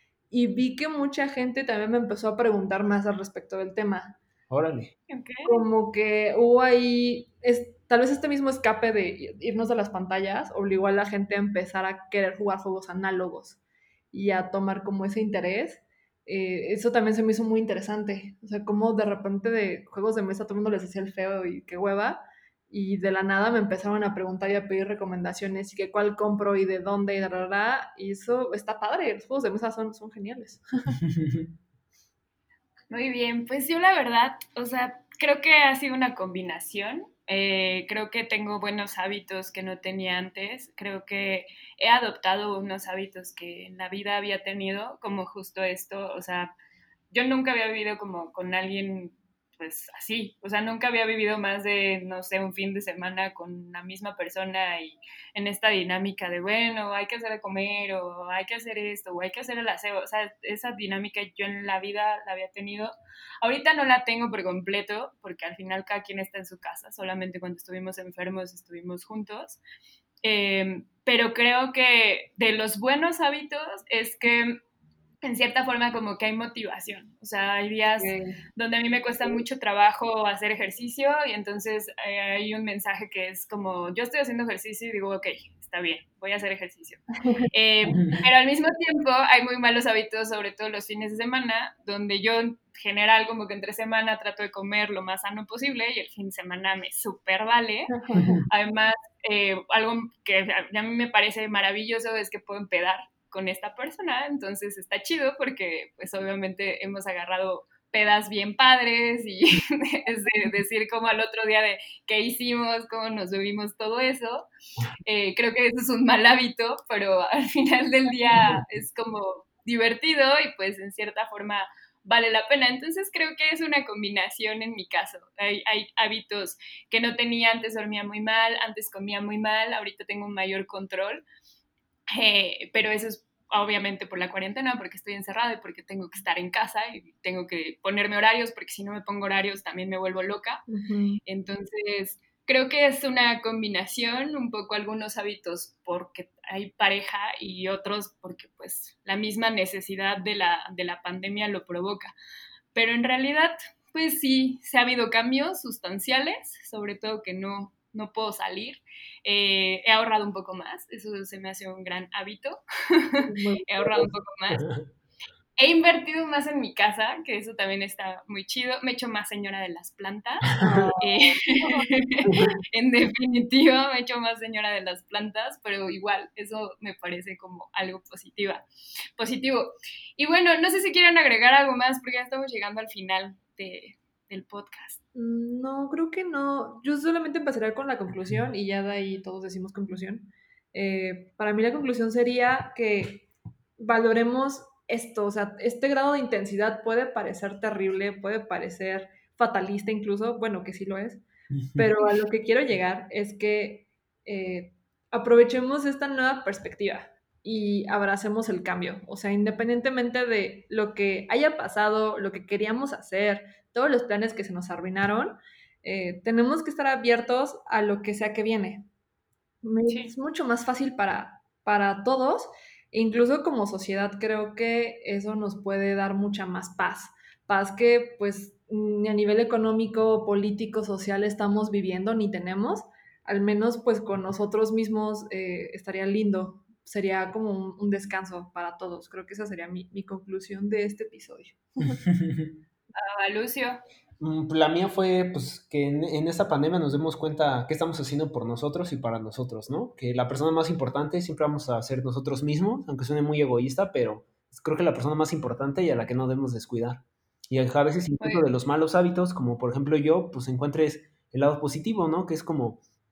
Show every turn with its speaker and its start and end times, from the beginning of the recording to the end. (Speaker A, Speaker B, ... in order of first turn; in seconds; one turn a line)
Speaker A: 0.3-4.2
Speaker B: 4.5-4.9
Speaker C: 5.1-5.6
Speaker A: 5.5-13.6
Speaker A: 14.1-31.0
Speaker B: 31.0-31.5
Speaker C: 32.9-46.5
Speaker C: 47.1-69.6
Speaker C: 70.2-74.6
Speaker C: 75.2-87.0
Speaker A: 78.0-78.3
Speaker C: 87.5-98.0
Speaker B: 87.9-88.2
Speaker A: 97.9-98.4
Speaker B: 98.2-98.4
Speaker C: 98.5-114.5
Speaker C: 115.1-131.2
Speaker B: 118.3-118.6
Speaker C: 132.2-140.6
Speaker A: 140.7-141.2
Speaker C: 141.3-152.1
Speaker C: 152.7-164.6
Speaker A: 163.2-164.1
Speaker B: 164.5-164.8
Speaker C: 165.6-178.7
Speaker A: 170.6-172.5
Speaker C: 179.2-185.0
Speaker A: 185.2-193.3
Speaker A: 193.8-201.2
Speaker B: 201.6-201.9
Speaker A: 201.8-218.9
Speaker A: 219.6-242.0
Speaker C: 219.9-220.1
Speaker B: 242.1-242.6
Speaker C: 242.9-243.8
Speaker B: 244.2-262.8